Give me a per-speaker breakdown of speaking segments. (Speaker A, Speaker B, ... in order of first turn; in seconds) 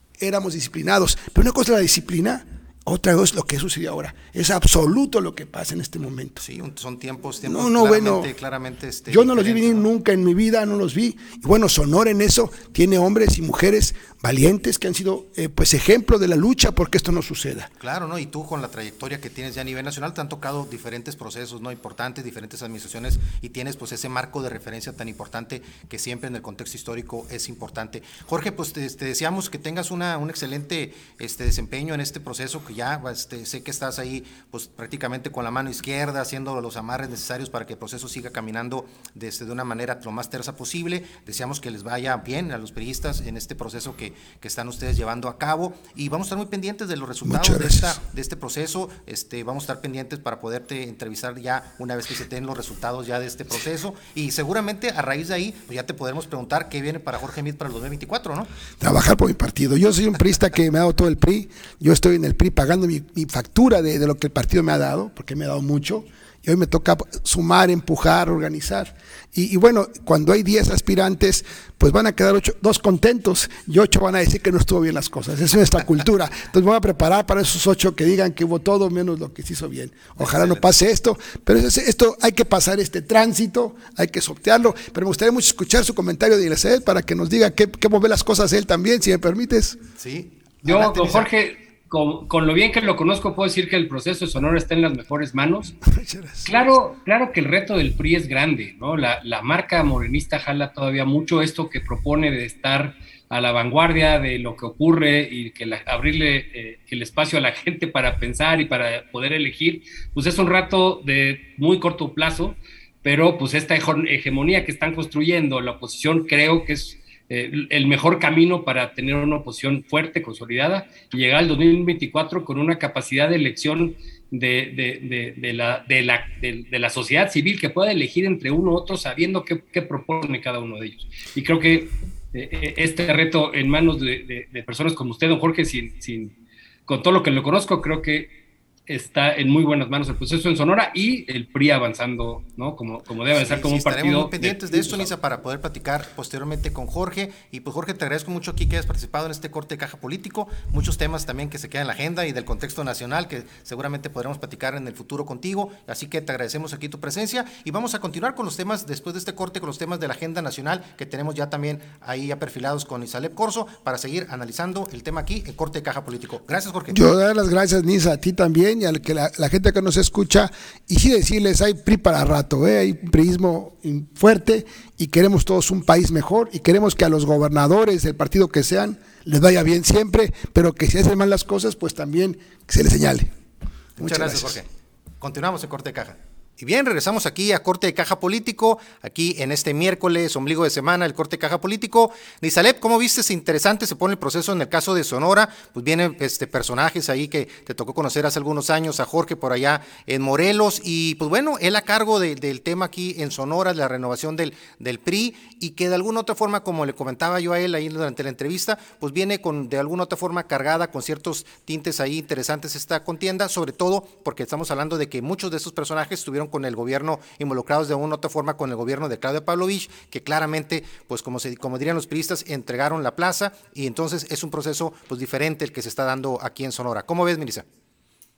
Speaker A: 0.2-6.4, 7.4-8.3, 9.1-17.7, 47.2-48.0, 58.8-89.8, 95.8-96.6, 166.9-183.3, 184.0-184.6
Speaker B: 6.4-9.9, 17.8-58.5, 80.2-80.6, 90.0-91.3, 143.3-167.1, 184.0-184.7, 185.2-227.7
Speaker C: 90.6-95.8, 96.4-136.3, 136.9-138.3, 138.9-145.1